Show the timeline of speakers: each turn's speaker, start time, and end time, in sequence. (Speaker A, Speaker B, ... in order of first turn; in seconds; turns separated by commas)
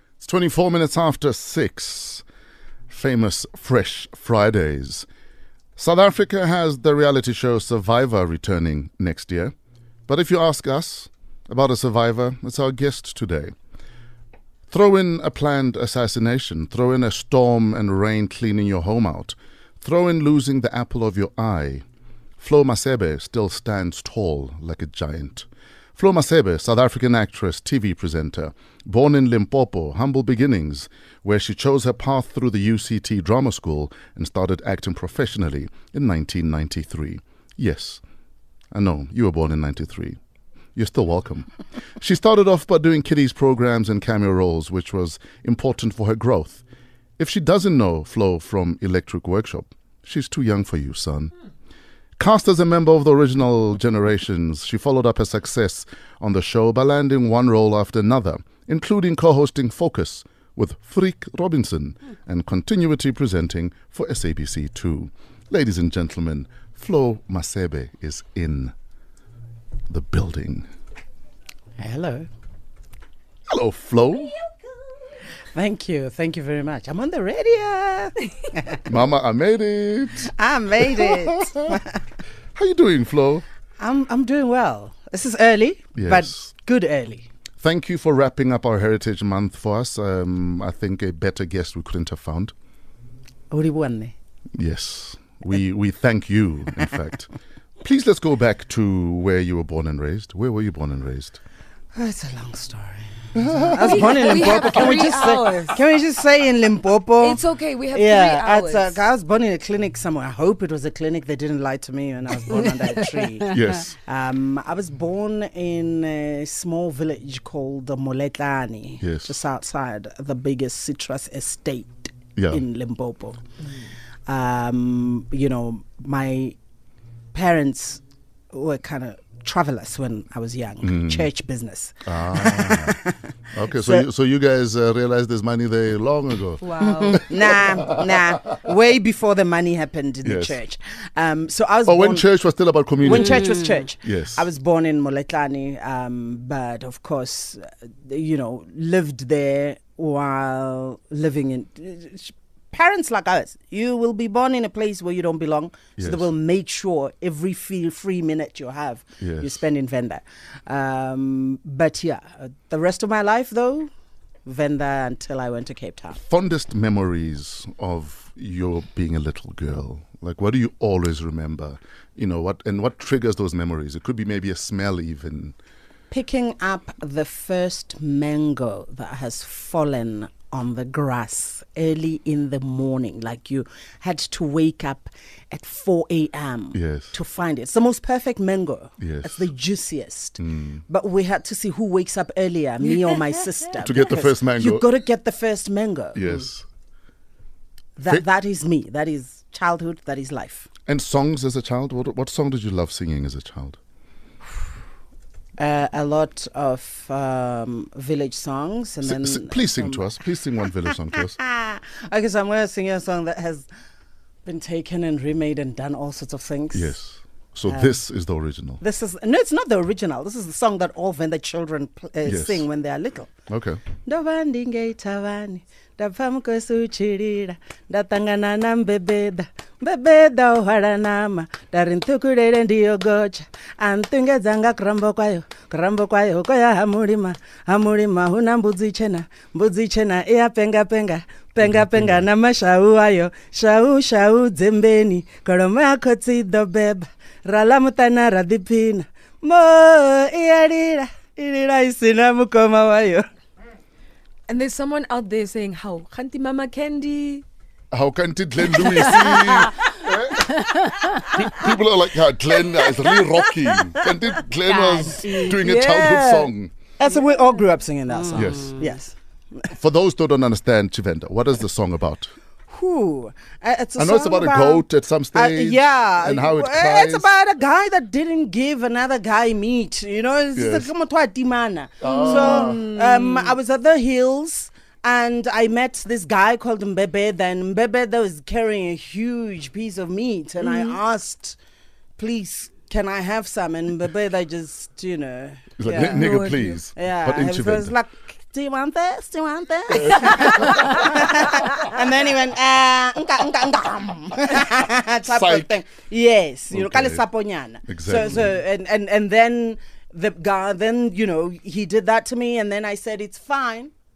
Speaker A: 0.2-2.2, Speaker A: 2.9-5.1, Speaker A: 5.8-9.5, Speaker A: 10.1-13.5, Speaker A: 14.7-21.8, Speaker A: 22.4-38.0, Speaker A: 38.7-40.2, Speaker A: 40.8-46.6, Speaker A: 47.2-51.3, Speaker A: 52.2-68.7, Speaker A: 69.9-70.7, Speaker B: 71.8-72.3, Speaker A: 73.5-74.3, Speaker B: 75.5-78.9, Speaker A: 78.9-81.8, Speaker B: 80.2-82.0, Speaker A: 82.5-83.5, Speaker B: 83.8-87.3, Speaker A: 86.0-86.5, Speaker A: 87.6-92.5, Speaker B: 93.5-94.2, Speaker A: 94.5-97.3, Speaker A: 97.8-101.4, Speaker B: 101.9-123.4, Speaker A: 103.3-104.7, Speaker C: 103.8-105.8, Speaker C: 107.2-109.0, Speaker C: 112.5-113.5, Speaker A: 113.5-114.0, Speaker A: 119.0-119.4, Speaker A: 122.4-122.6, Speaker B: 124.3-126.5, Speaker B: 127.3-133.2, Speaker A: 130.8-131.3, Speaker A: 132.1-133.0, Speaker A: 133.5-138.0, Speaker B: 133.7-134.1, Speaker C: 136.6-137.3, Speaker B: 136.8-142.3, Speaker A: 140.2-140.6, Speaker A: 141.9-143.5, Speaker B: 143.0-163.9, Speaker C: 143.1-143.9, Speaker A: 144.0-144.5, Speaker A: 156.0-156.3, Speaker A: 159.2-159.6, Speaker B: 164.5-166.2, Speaker A: 166.2-175.6, Speaker B: 176.1-196.2, Speaker A: 186.7-187.2, Speaker A: 189.0-189.5, Speaker A: 190.4-190.8, Speaker A: 193.8-194.9, Speaker A: 196.2-196.7, Speaker B: 198.0-200.7, Speaker A: 200.9-203.8, Speaker B: 205.6-210.1, Speaker A: 209.0-211.4, Speaker B: 211.4-213.7, Speaker B: 214.4-216.9, Speaker A: 216.7-218.8, Speaker B: 217.7-218.0, Speaker B: 218.8-223.3, Speaker A: 222.2-222.7, Speaker A: 223.5-223.8, Speaker B: 224.0-253.3, Speaker C: 254.5-257.4, Speaker A: 257.9-260.7, Speaker C: 259.2-259.6, Speaker A: 261.2-266.7, Speaker C: 264.6-266.5, Speaker B: 267.0-269.1, Speaker C: 268.1-268.5, Speaker A: 268.3-268.8, Speaker A: 269.7-272.3, Speaker B: 272.7-291.6, Speaker A: 274.0-277.3, Speaker A: 280.6-280.9, Speaker A: 282.0-282.9, Speaker C: 282.1-283.6, Speaker C: 290.6-291.0, Speaker B: 292.2-296.3, Speaker A: 295.8-297.9, Speaker C: 295.9-296.8, Speaker B: 297.0-313.9, Speaker A: 299.9-301.1, Speaker A: 305.3-305.7, Speaker A: 306.7-307.2, Speaker A: 307.9-308.6